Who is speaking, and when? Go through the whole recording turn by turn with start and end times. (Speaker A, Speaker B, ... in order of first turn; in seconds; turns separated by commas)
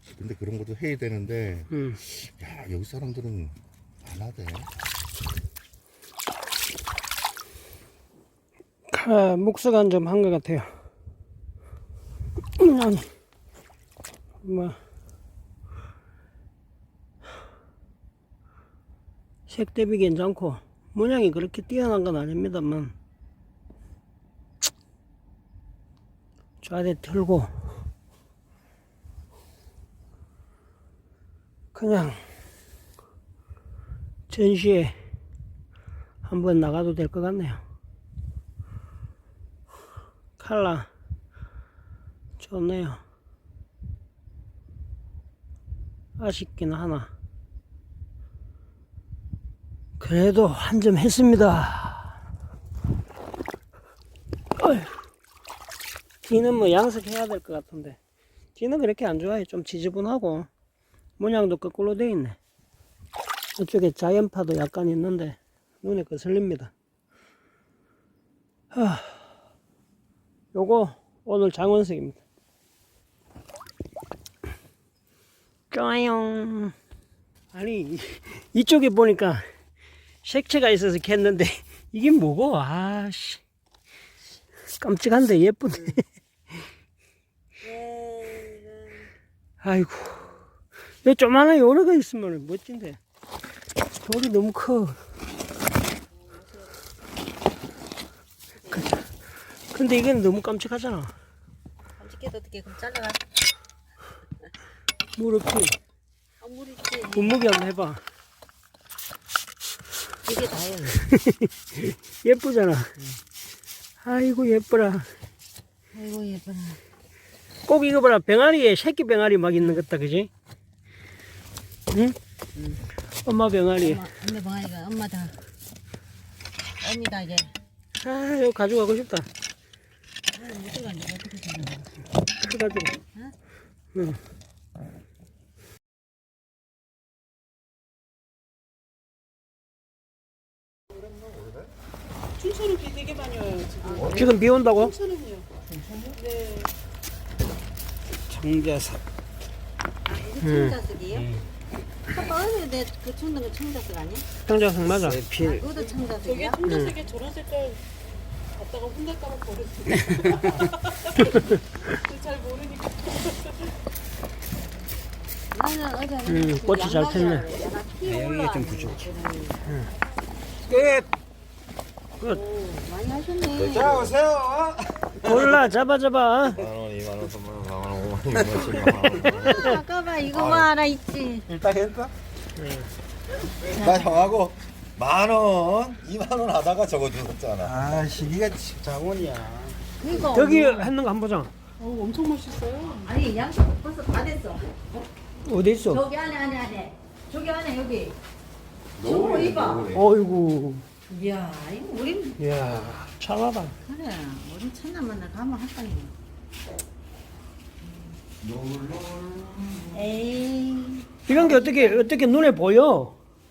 Speaker A: 0.1-4.7, Speaker B: 1.7-2.0, Speaker B: 8.9-10.7, Speaker B: 12.6-13.1, Speaker B: 14.4-14.8, Speaker B: 19.5-22.9, Speaker B: 26.6-27.5, Speaker B: 31.7-32.2, Speaker B: 34.3-35.0, Speaker B: 36.3-37.6, Speaker B: 40.4-40.9, Speaker B: 42.4-43.0, Speaker B: 46.2-47.1, Speaker B: 50.0-52.1, Speaker B: 54.6-55.0, Speaker B: 56.3-58.0, Speaker B: 58.6-60.5, Speaker B: 61.2-62.4, Speaker B: 63.6-66.7, Speaker B: 68.7-69.3, Speaker B: 70.5-72.2, Speaker B: 75.7-76.7, Speaker B: 77.5-79.5, Speaker B: 80.2-83.4, Speaker B: 84.8-86.0, Speaker C: 87.6-89.1, Speaker B: 89.6-90.2, Speaker B: 91.0-93.0, Speaker B: 94.0-95.0, Speaker C: 98.7-99.0, Speaker B: 98.7-99.0, Speaker B: 99.7-101.1, Speaker C: 102.0-103.2, Speaker B: 105.2-105.7, Speaker C: 106.4-107.4, Speaker B: 107.2-108.0, Speaker C: 110.2-111.1, Speaker B: 111.8-112.9, Speaker B: 114.0-115.1, Speaker C: 115.9-116.8, Speaker B: 117.7-120.3, Speaker C: 122.5-122.8, Speaker B: 123.2-124.0, Speaker C: 123.8-125.4, Speaker C: 126.8-127.5, Speaker B: 128.0-129.3, Speaker C: 130.3-132.0, Speaker B: 132.4-133.0, Speaker A: 141.1-141.4, Speaker D: 142.4-144.2, Speaker C: 143.8-144.4, Speaker B: 144.1-145.0, Speaker D: 144.9-145.5, Speaker D: 146.3-146.7, Speaker B: 148.3-149.0, Speaker C: 150.1-151.3, Speaker B: 150.4-150.8, Speaker C: 152.1-154.3, Speaker B: 154.5-155.6, Speaker C: 155.1-157.0, Speaker D: 156.5-157.8, Speaker B: 156.7-157.0, Speaker D: 158.6-160.0, Speaker D: 162.1-162.9, Speaker C: 165.5-169.7, Speaker B: 166.3-167.5, Speaker E: 168.1-169.1, Speaker E: 170.7-171.1, Speaker C: 170.7-171.0, Speaker C: 172.2-174.1, Speaker A: 173.6-174.2, Speaker E: 173.8-175.6, Speaker B: 175.2-176.6, Speaker A: 176.6-179.5, Speaker E: 178.3-179.4, Speaker C: 179.2-181.5, Speaker A: 180.4-180.7, Speaker E: 181.5-182.1, Speaker C: 183.6-184.4, Speaker A: 183.8-187.6, Speaker E: 187.6-190.2, Speaker C: 190.0-190.9, Speaker B: 190.3-191.5, Speaker D: 191.8-192.9, Speaker C: 192.9-194.7, Speaker B: 195.4-196.0, Speaker C: 195.9-198.2, Speaker C: 199.0-199.9, Speaker A: 199.1-199.7, Speaker B: 199.9-200.8, Speaker C: 201.1-202.4, Speaker B: 202.4-203.8, Speaker C: 203.8-206.1, Speaker C: 207.8-208.2, Speaker A: 208.4-209.8, Speaker C: 209.8-212.1, Speaker B: 211.3-213.2